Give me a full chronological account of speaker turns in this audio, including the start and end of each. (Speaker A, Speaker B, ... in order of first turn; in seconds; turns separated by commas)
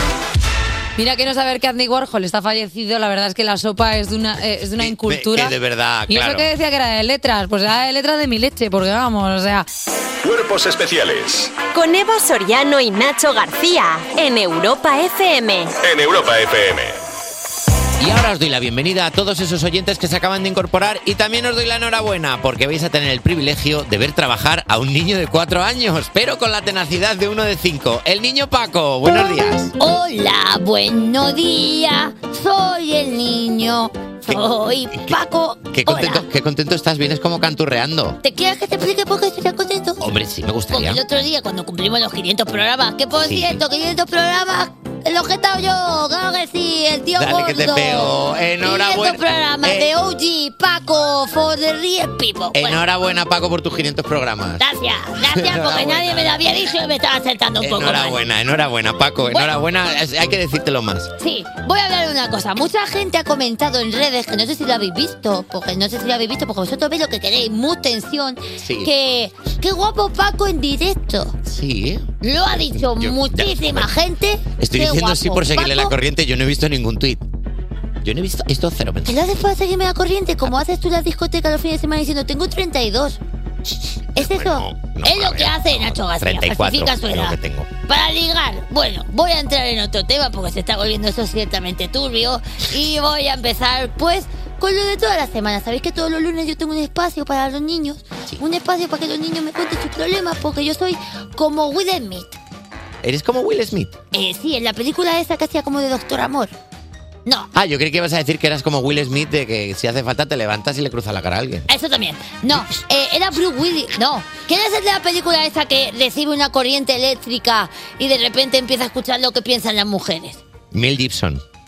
Speaker A: 1.0-5.6, Speaker B: 4.8-6.5, Speaker A: 6.1-9.7, Speaker C: 10.2-11.6, Speaker D: 11.7-15.7, Speaker C: 15.8-17.0, Speaker B: 18.0-29.7, Speaker E: 29.8-36.3, Speaker B: 35.7-38.2, Speaker E: 38.2-40.0, Speaker B: 40.0-41.0, Speaker E: 40.7-52.8, Speaker B: 43.2-43.6, Speaker B: 47.2-49.9, Speaker B: 52.5-54.6, Speaker E: 54.6-58.2, Speaker B: 55.2-56.4, Speaker B: 57.6-61.1, Speaker E: 59.2-59.5, Speaker E: 61.2-71.4, Speaker B: 68.6-68.9, Speaker B: 71.4-73.9, Speaker E: 72.2-75.9, Speaker B: 74.6-77.2, Speaker B: 78.0-79.2, Speaker E: 79.0-83.2, Speaker B: 84.2-87.7, Speaker E: 84.2-102.4, Speaker B: 103.0-103.9, Speaker E: 104.1-106.5, Speaker B: 107.5-111.7, Speaker E: 111.7-120.4, Speaker B: 120.7-121.4